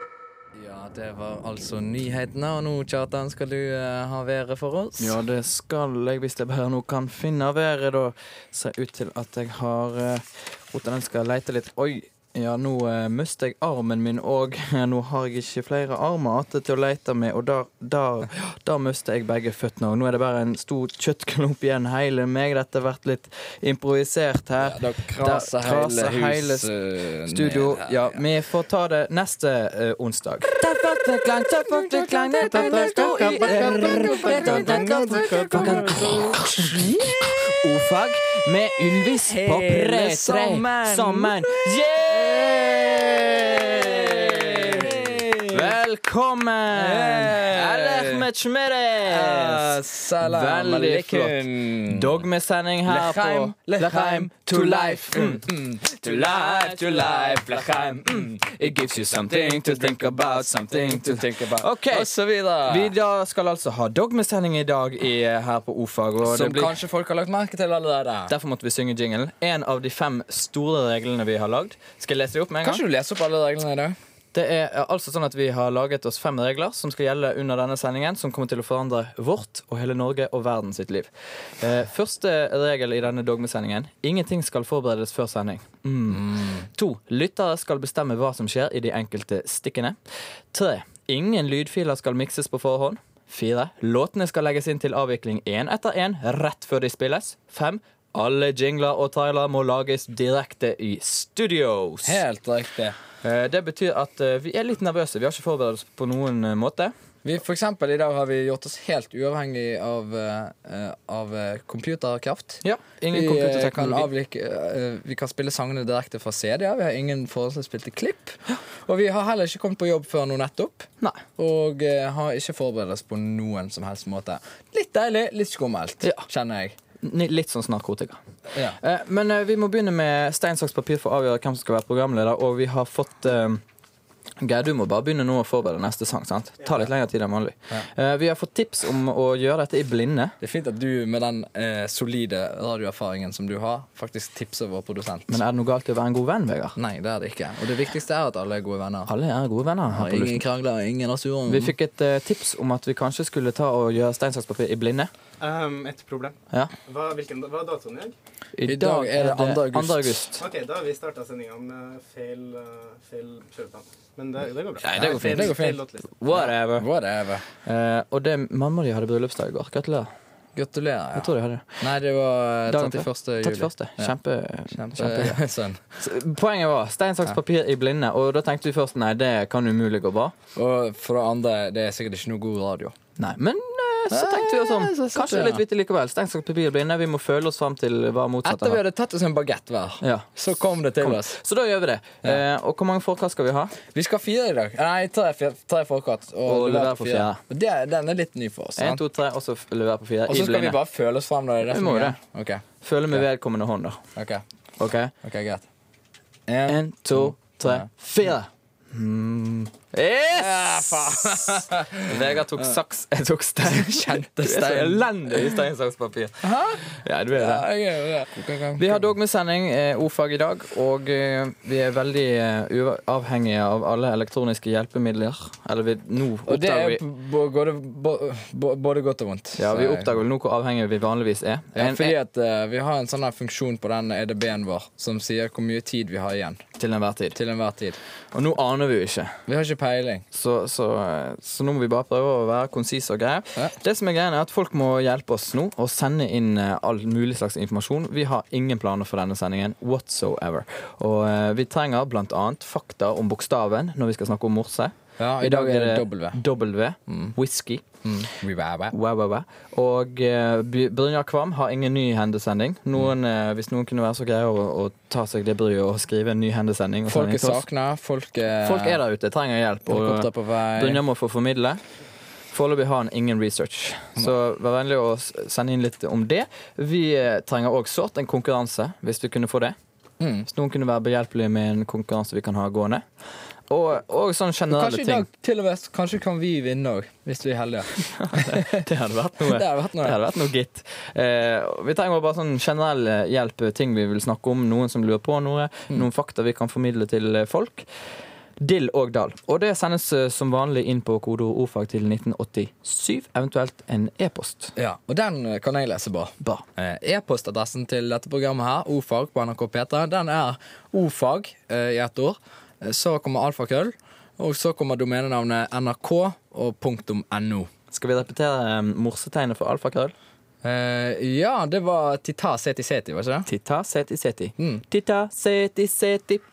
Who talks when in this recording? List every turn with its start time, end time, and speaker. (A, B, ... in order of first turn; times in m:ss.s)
0:00.5-0:05.2 A
0:05.0-0:26.7 B
0:24.6-0:28.2 A
0:27.3-1:06.8 B
0:31.7-0:37.1 A
0:32.4-0:36.5 C
0:39.2-0:45.7 A
0:46.7-0:48.3 A
0:49.0-0:52.2 A
0:52.8-1:02.9 A
1:06.2-1:08.3 A
1:08.3-1:12.8 B
1:12.6-1:14.0 A
1:14.3-1:30.0 B
1:26.1-1:26.7 A
1:30.5-1:42.2 B
1:42.0-1:43.0 A
1:43.2-1:46.9 B
1:47.2-2:06.8 A
1:52.6-1:54.1 B
2:07.0-2:08.2 B
2:08.5-2:08.8 A
2:08.8-2:13.6 B
2:14.4-2:20.4 B
2:20.4-2:25.4 A
2:25.3-2:26.8 B
2:26.8-2:29.1 A
2:29.1-2:30.4 B
2:29.9-2:31.7 A
2:31.5-2:35.1 B
2:35.4-2:36.4 C
2:36.9-2:38.1 C
2:38.6-2:40.4 B
2:38.6-2:40.2 A
2:40.4-2:46.1 C
2:44.8-2:45.6 B
2:44.9-2:47.4 A
2:46.2-2:46.8 B
2:47.6-2:50.1 B
2:50.5-2:54.1 A
2:51.2-2:51.8 B
2:52.7-2:55.4 B
2:54.7-2:55.8 A
2:56.0-3:00.3 B
3:00.5-3:02.9 A
3:03.2-3:08.8 B
3:04.1-3:05.6 A
3:08.4-3:11.4 A
3:10.0-3:10.3 B
3:11.0-3:13.7 B
3:13.9-3:19.0 A
3:16.4-3:17.4 B
3:18.8-3:20.8 B
3:20.3-3:23.2 A
3:21.6-3:22.2 B
3:22.8-3:24.0 B
3:24.1-3:24.4 A
3:24.8-3:25.1 B
3:25.2-3:25.6 A
3:26.5-3:27.9 A
3:26.7-3:37.6 B
3:30.3-3:32.7 A
3:33.6-3:35.5 A
3:36.4-3:39.0 A
3:38.8-3:47.0 B
3:46.5-3:50.1 A
3:49.6-3:52.2 B
3:51.7-3:56.6 A
3:56.8-3:57.4 B
3:57.3-3:58.0 A
3:58.3-3:59.4 B
3:59.5-4:00.2 A
4:00.3-4:17.8 B
4:15.2-4:16.4 A
4:17.1-4:17.3 A
4:18.0-4:18.9 A
4:18.9-4:27.6 B
4:27.1-4:29.0 A
4:28.6-4:31.8 B
4:29.9-4:31.0 A
4:32.5-4:39.8 B
4:40.2-4:40.5 A
4:40.5-4:43.0 B
4:43.7-4:45.3 B
4:44.7-4:48.8 A
4:48.1-4:57.9 B
4:49.4-4:50.2 A
4:58.6-5:04.7 B
5:04.8-5:17.7 A
5:17.9-5:20.1 B
5:20.6-5:23.5 A
5:23.5-5:26.4 B
5:24.6-5:24.8 A